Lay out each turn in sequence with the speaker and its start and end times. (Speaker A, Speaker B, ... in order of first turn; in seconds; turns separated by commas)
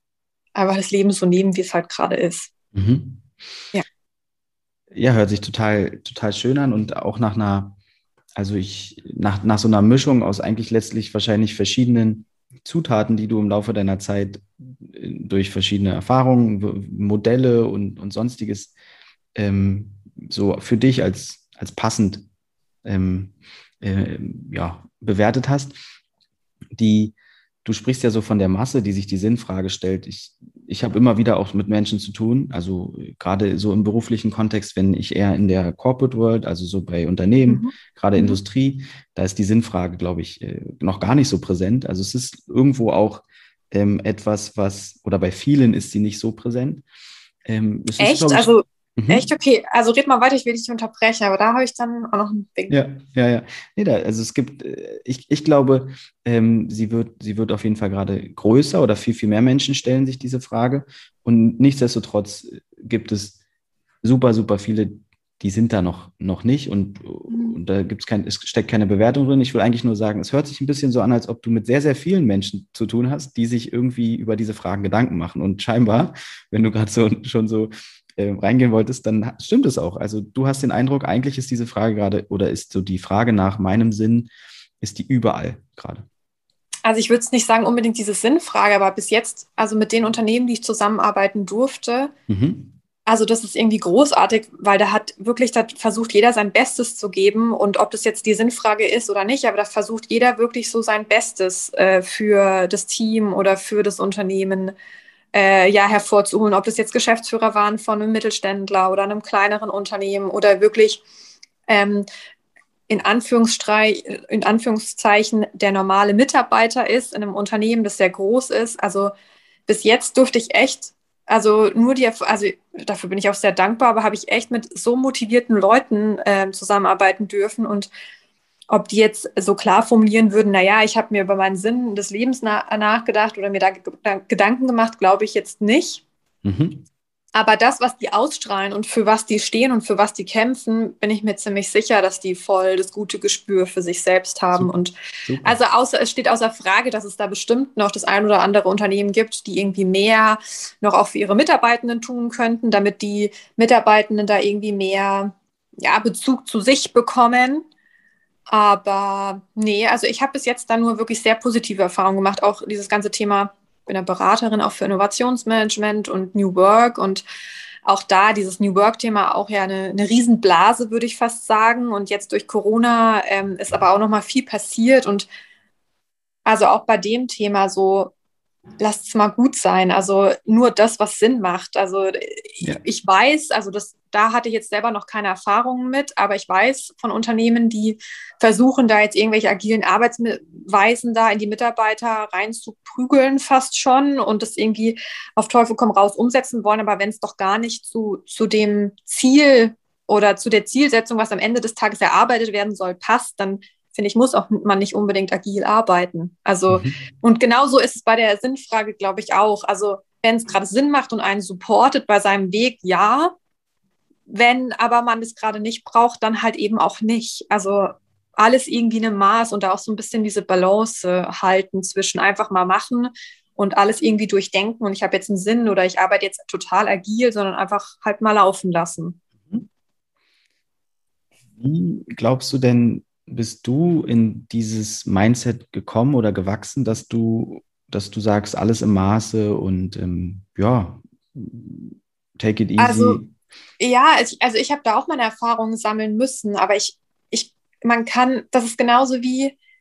Speaker A: 0.6-2.5, Speaker B: 2.7-3.3, Speaker B: 4.9-7.8, Speaker B: 8.4-18.7, Speaker B: 19.4-22.3, Speaker B: 22.9-25.8, Speaker B: 26.7-46.9, Speaker A: 37.5-38.4, Speaker B: 47.5-49.3, Speaker A: 48.0-52.8, Speaker B: 52.7-63.4, Speaker B: 64.0-84.3, Speaker A: 67.3-67.6, Speaker B: 84.8-86.0, Speaker A: 86.8-92.1, Speaker B: 92.3-92.7, Speaker A: 93.1-104.8, Speaker A: 105.3-111.0, Speaker A: 111.7-112.1, Speaker A: 112.9-119.1, Speaker A: 119.7-127.9, Speaker A: 128.7-136.0, Speaker B: 136.4-136.9, Speaker A: 137.3-157.7, Speaker B: 144.5-145.6, Speaker A: 158.5-167.2, Speaker A: 167.9-175.3, Speaker A: 176.4-178.1, Speaker A: 178.8-213.3, Speaker B: 206.7-206.9, Speaker A: 214.3-229.2, Speaker B: 231.6-243.3, Speaker A: 242.8-243.2, Speaker A: 243.8-249.6